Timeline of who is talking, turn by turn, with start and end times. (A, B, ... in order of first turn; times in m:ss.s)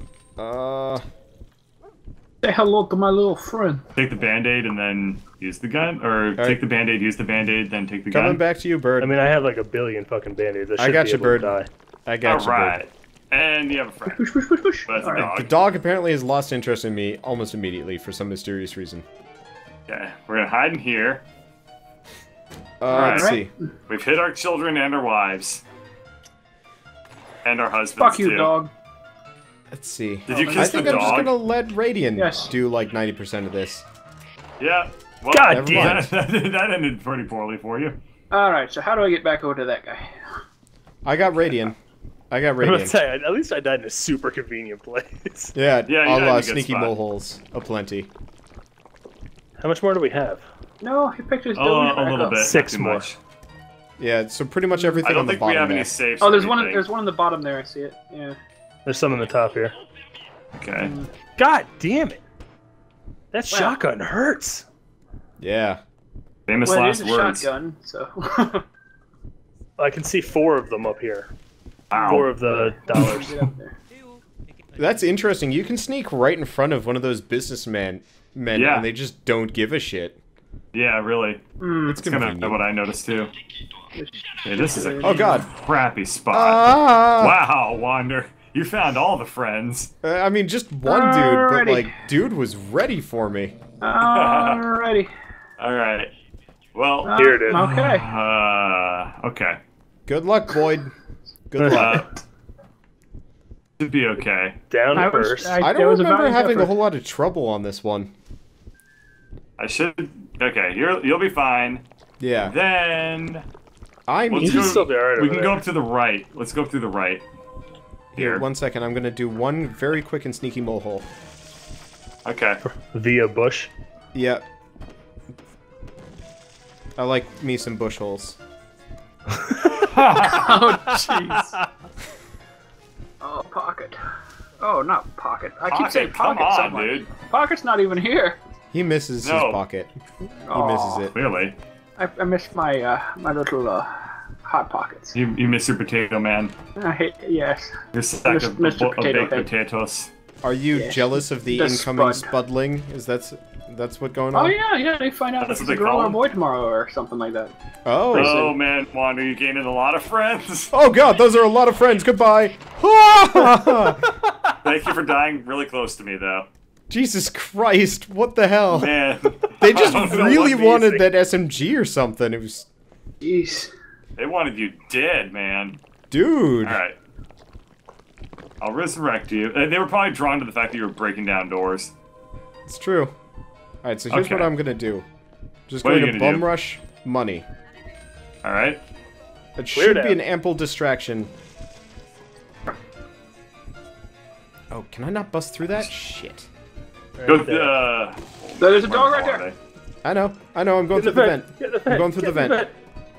0:00.4-0:01.0 A
0:02.4-0:03.8 B
0:04.0-0:08.4 C
0:08.1-0:09.2 A
0:09.0-0:11.7 D
0:10.8-0:12.8 A
0:12.2-0:14.3 C
0:14.1-0:15.3 B
0:14.8-0:15.6 C
0:15.1-0:19.0 A
0:19.9-0:21.2 C
0:22.8-0:23.5 A
0:22.9-0:23.4 C
0:22.9-0:23.7 B
0:23.9-0:25.6 C
0:27.4-0:28.6 C
0:28.0-0:28.7 B
0:29.7-0:33.8 A
0:30.3-0:31.3 C
0:30.3-0:31.3 B
0:32.2-0:32.5 B
0:34.6-0:38.0 C
0:35.3-0:36.1 D
0:35.5-0:36.1 A
0:38.3-0:40.1 B
0:41.0-0:41.8 A
0:42.3-0:43.0 A
0:42.6-0:45.5 D
0:45.6-0:48.1 A
0:45.9-0:47.0 C
0:49.6-0:50.4 D
0:50.8-0:52.5 B
0:51.5-0:53.2 C
0:52.4-0:53.1 D
0:54.0-0:55.9 A
0:54.8-0:55.1 B
0:55.0-0:56.9 C
0:56.2-0:58.4 B
0:58.9-0:59.8 D
1:00.6-1:00.9 C
1:00.8-1:01.1 B
1:01.4-1:02.2 D
1:03.3-1:04.7 D
1:03.5-1:03.8 B
1:05.4-1:05.8 A
1:06.5-1:07.5 C
1:06.6-1:08.6 B
1:09.8-1:11.3 D
1:11.9-1:12.3 C
1:11.9-1:13.4 D
1:12.4-1:13.8 B
1:14.8-1:20.2 A
1:18.5-1:18.9 C
1:20.7-1:21.4 C
1:21.6-1:22.0 B
1:21.9-1:22.6 A
1:21.9-1:23.3 C
1:24.0-1:25.4 B
1:24.4-1:29.9 C
1:25.0-1:25.5 A
1:26.3-1:27.4 A
1:30.0-1:33.6 A
1:30.9-1:31.9 B
1:33.8-1:35.1 B
1:34.0-1:34.6 C
1:35.6-1:36.1 C
1:36.8-1:39.6 C
1:37.0-1:38.1 B
1:37.1-1:37.6 D
1:40.1-1:40.9 A
1:41.5-1:42.1 A
1:41.6-1:41.9 D
1:41.7-1:42.1 C
1:43.8-1:44.6 C
1:44.7-1:45.6 D
1:44.9-1:46.8 B
1:45.6-1:48.1 A
1:49.6-1:51.8 C
1:52.2-1:52.5 A
1:52.4-1:53.4 C
1:54.1-1:54.8 A
1:54.3-1:57.3 C
1:54.4-1:55.6 D
1:58.1-2:01.1 A
1:58.2-1:58.4 C
2:02.2-2:02.6 C
2:02.6-2:03.7 D
2:04.1-2:04.4 A
2:07.0-2:08.4 A
2:09.4-2:09.9 D
2:09.8-2:10.6 C
2:10.2-2:11.5 B
2:10.9-2:11.3 D
2:13.2-2:14.0 B
2:14.6-2:18.4 B
2:15.7-2:17.1 C
2:18.7-2:19.9 A
2:19.2-2:19.6 C
2:20.5-2:21.1 B
2:20.5-2:21.1 A
2:21.1-2:21.6 C
2:22.0-2:23.9 B
2:24.4-2:25.2 B
2:25.1-2:26.5 C
2:26.8-2:27.7 B
2:27.9-2:30.1 C
2:28.2-2:29.5 B
2:30.4-2:34.6 A
2:30.7-2:32.3 B
2:34.3-2:37.5 B
2:35.4-2:36.2 C
2:37.9-2:38.5 A
2:38.1-2:38.6 B
2:38.1-2:40.7 C
2:40.7-2:44.1 A
2:44.6-2:46.5 C
2:46.9-2:48.9 A
2:48.8-2:50.6 C
2:49.6-2:52.7 A
2:49.9-2:51.1 D
2:53.2-2:53.7 B
2:54.2-2:55.8 C
2:56.1-2:56.8 A
2:56.6-2:57.0 C
2:58.6-3:01.9 C
3:02.7-3:03.1 A
3:03.8-3:05.1 A
3:04.1-3:04.5 C
3:05.7-3:07.5 A
3:05.8-3:06.5 C
3:08.4-3:08.8 C
3:09.6-3:11.3 A
3:09.7-3:10.2 D
3:14.7-3:16.5 A
3:17.2-3:17.8 D
3:17.2-3:19.6 C
3:18.6-3:19.5 B
3:20.0-3:22.6 A
3:20.9-3:22.8 D